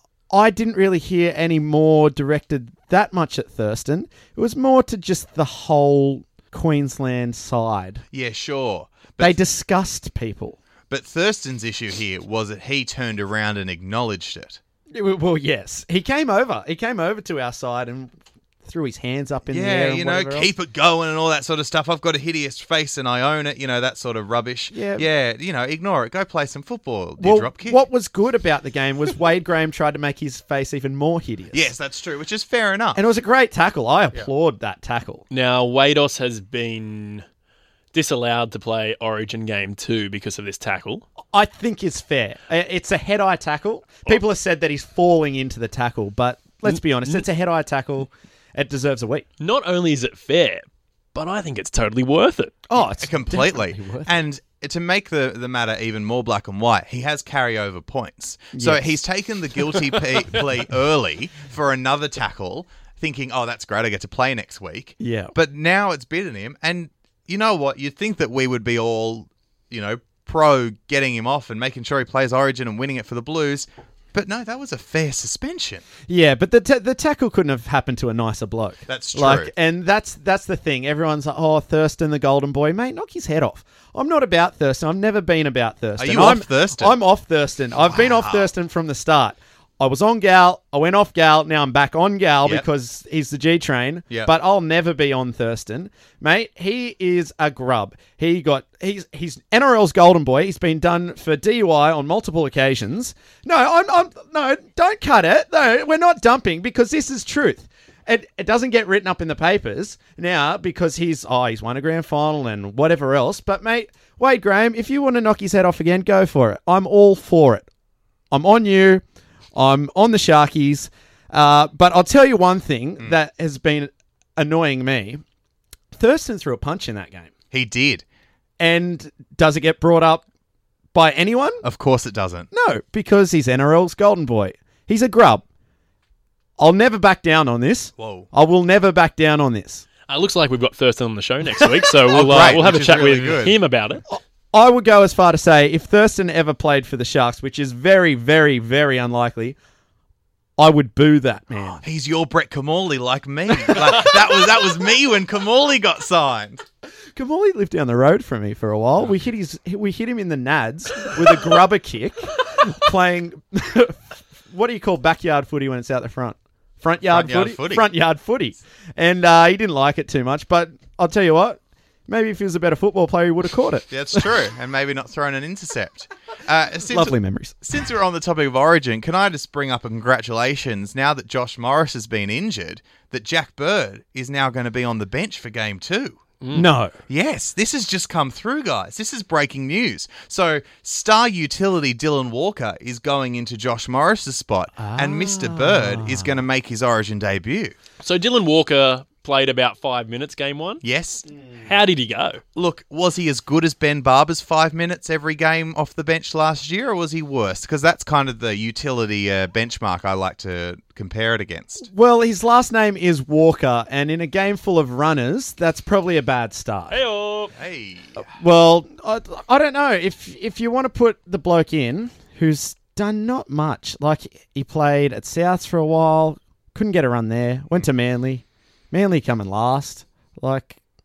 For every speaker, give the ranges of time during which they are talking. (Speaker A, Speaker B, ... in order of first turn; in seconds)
Speaker A: 0.3-8.0, 9.2-10.6, 14.9-18.1, 18.6-20.5, 24.7-25.1, 27.2-31.7, 32.9-35.2, 41.3-49.3, 52.7-54.1, 58.5-59.0, 65.0-65.3, 76.1-117.7, 118.3-119.0, 119.5-125.2, 125.9-127.3, 128.6-130.2, 130.9-131.6, 132.5-135.4, 136.6-139.8, 144.1-149.6, 150.6-151.8, 153.6-154.0, 157.1-174.3, 176.9-177.6, 186.5-187.0, 194.8-196.4, 201.4-201.7, 211.8-217.0, 218.2-230.8
Speaker B: 8.1-9.4, 10.9-14.6, 19.5-27.8, 31.5-33.0, 52.8-75.8, 78.9-79.5, 86.0-87.0, 87.9-88.5, 127.5-128.0, 131.6-132.5, 138.0-138.3, 142.1-143.6, 151.5-156.6, 167.0-167.9, 173.9-186.2, 187.1-197.8, 200.8-201.2, 202.5-211.9, 217.5-218.2
Speaker C: 35.3-37.2, 37.9-41.0, 46.7-47.2, 49.4-52.5, 140.1-144.0, 186.4-186.7, 198.0-200.8, 201.6-202.4, 216.9-217.5